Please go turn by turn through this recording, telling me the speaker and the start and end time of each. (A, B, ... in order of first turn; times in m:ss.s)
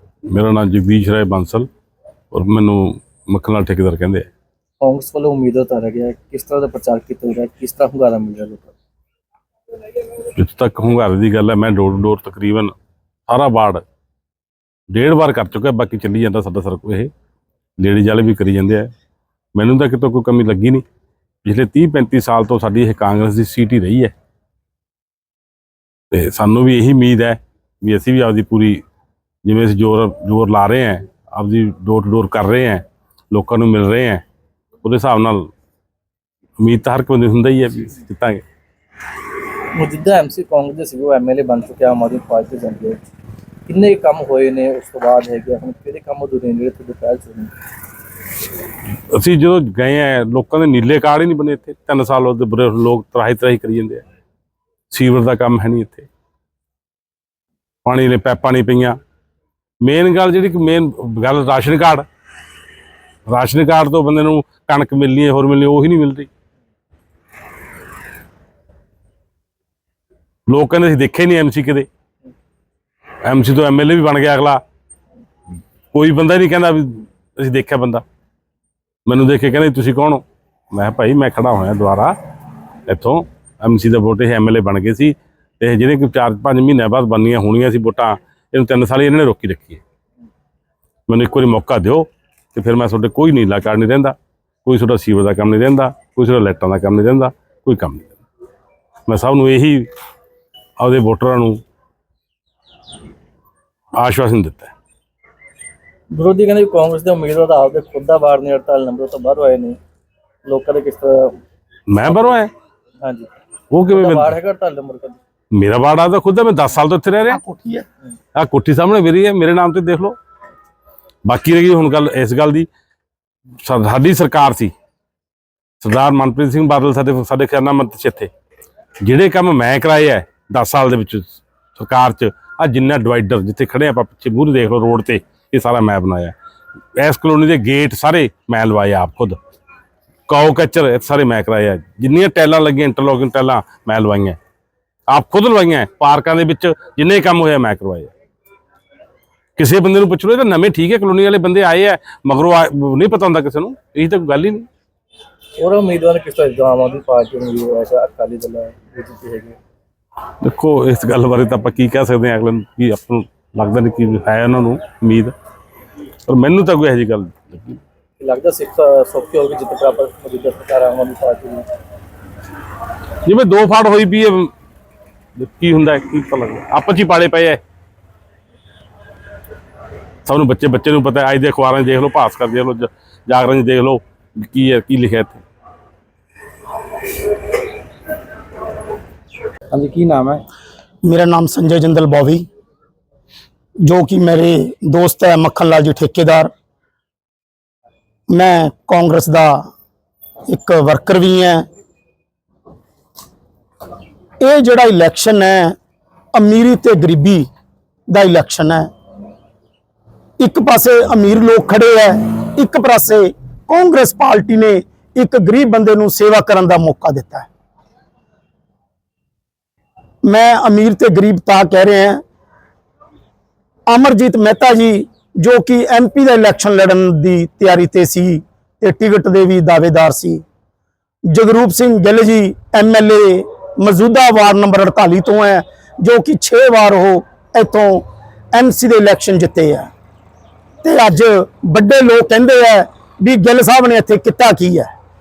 0:00.3-0:01.7 A
0:02.3-0:04.3 A
0:04.8-0:08.7 B
0:10.3-0:12.7 A
0:13.3-0:13.8 A
0:14.9-0:17.1 A
0:17.8-0:18.9 A
0:19.5-0:20.8 A
0:21.4-0:24.1 A
0:26.1-0:28.8 A
0:29.4-0:34.2 A
0:34.8-0:35.5 A
0:36.6-0:38.4 A
0:39.7-0:43.0 B
0:43.7-0:47.5 B
0:49.1-0:54.0 A
0:54.9-0:56.1 A
0:57.8-0:59.0 A
0:59.8-1:02.0 A
1:03.3-1:06.3 A
1:10.5-1:11.9 A
1:13.2-1:14.6 A
1:15.9-1:18.0 A
1:19.0-1:22.2 A
1:22.9-1:29.8 A
1:31.1-1:38.2 A
1:39.1-1:39.9 A
1:40.8-1:41.6 A
1:44.0-1:44.7 A
1:46.1-1:49.8 B
1:50.4-1:51.4 B
1:51.9-1:52.5 A
1:52.0-1:52.4 B
1:53.0-1:53.3 B
1:53.7-1:54.3 A
1:53.9-1:55.2 B
1:55.5-1:57.4 A
1:57.3-1:57.8 C
1:58.4-2:00.2 A
2:01.2-2:02.7 A
2:03.6-2:04.7 A
2:05.8-2:08.3 A
2:09.0-2:16.3 A
2:17.0-2:19.4 A
2:20.3-2:24.4 A
2:25.1-2:28.1 A
2:29.6-2:34.6 A
2:35.6-2:39.6 B
2:40.4-2:45.3 A
2:46.3-2:47.8 A
2:48.2-2:51.6 B
2:53.2-2:54.5 A
2:55.4-2:57.6 A
3:00.2-3:05.4 A
3:09.7-3:10.4 B
3:11.0-3:12.4 C
3:13.8-3:16.5 C
3:18.3-3:19.7 C
3:20.5-3:21.6 C
3:24.4-3:25.8 C
3:26.3-3:27.5 C
3:28.1-3:28.9 C
3:30.4-3:37.5 C
3:40.2-3:42.2 C
3:43.9-3:50.4 C
3:51.3-3:59.9 C
4:00.8-4:04.9 C